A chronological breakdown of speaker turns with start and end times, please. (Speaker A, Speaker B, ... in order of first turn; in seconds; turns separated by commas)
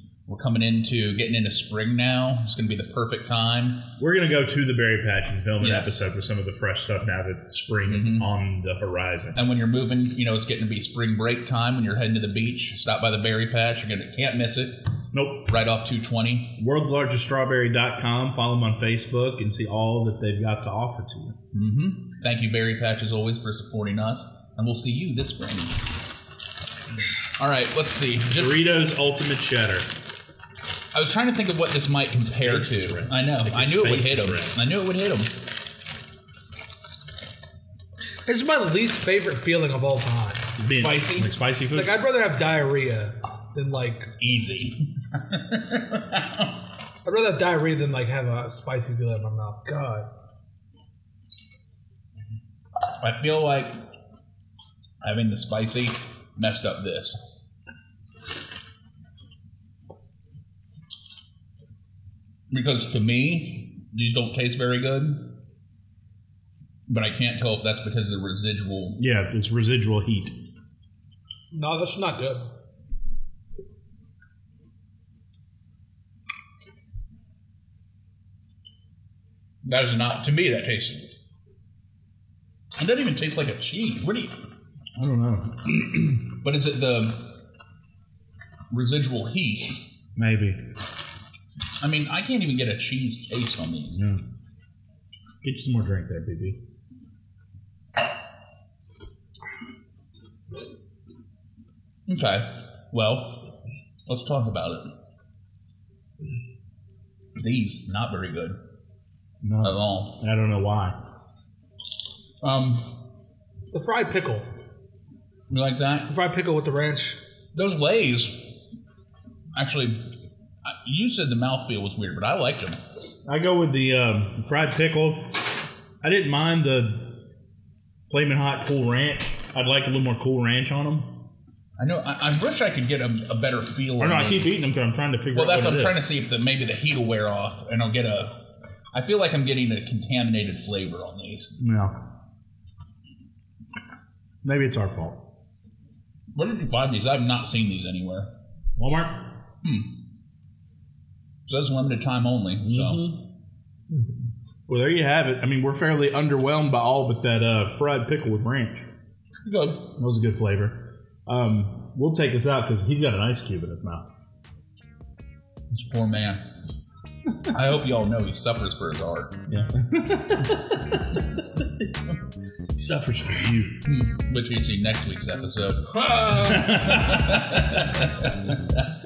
Speaker A: 0.3-3.9, Speaker B: 4.0-9.4, Speaker A: 5.6-6.0, Speaker A: 7.9-8.3, Speaker A: 9.3-14.8, Speaker B: 15.1-15.5, Speaker A: 15.5-16.5, Speaker B: 16.6-21.4, Speaker A: 21.5-25.8, Speaker A: 27.4-28.7, Speaker B: 28.3-29.9, Speaker A: 30.9-35.3, Speaker B: 32.1-34.6, Speaker C: 38.2-40.5, Speaker B: 40.6-42.0, Speaker A: 40.6-41.4, Speaker C: 41.7-44.1, Speaker A: 44.2-46.5, Speaker C: 47.0-50.1, Speaker A: 53.0-53.8, Speaker A: 55.0-57.2, Speaker A: 62.5-65.2, Speaker A: 66.9-69.0, Speaker B: 69.0-70.3, Speaker C: 71.5-72.5, Speaker A: 79.6-81.1, Speaker A: 82.8-84.4, Speaker B: 85.0-86.2, Speaker A: 86.3-87.3, Speaker A: 88.7-89.8, Speaker B: 90.2-90.6, Speaker A: 91.8-94.0, Speaker B: 93.9-94.2, Speaker B: 95.4-96.6, Speaker A: 102.1-103.5, Speaker A: 104.1-104.9, Speaker A: 107.4-108.6, Speaker B: 109.4-111.0, Speaker A: 109.6-110.2, Speaker A: 112.4-113.0, Speaker C: 113.7-114.5, Speaker A: 115.5-116.1, Speaker C: 116.1-117.2, Speaker A: 117.5-118.5, Speaker A: 119.5-120.0, Speaker A: 120.7-122.8, Speaker B: 123.3-125.4, Speaker B: 126.0-127.1, Speaker B: 128.1-131.2, Speaker A: 131.8-134.6, Speaker B: 134.0-136.0, Speaker A: 135.3-138.3, Speaker A: 138.9-141.5, Speaker B: 141.6-141.9, Speaker B: 144.4-145.2, Speaker A: 146.3-148.3, Speaker B: 148.8-149.3, Speaker A: 149.6-149.9, Speaker A: 151.5-153.0, Speaker B: 152.6-153.2, Speaker B: 154.7-158.8, Speaker A: 159.4-159.8, Speaker B: 159.8-164.1, Speaker A: 165.7-166.4, Speaker A: 167.5-169.3, Speaker B: 169.5-172.1, Speaker B: 172.8-173.8, Speaker A: 173.8-178.9, Speaker C: 175.9-176.7, Speaker B: 176.3-177.3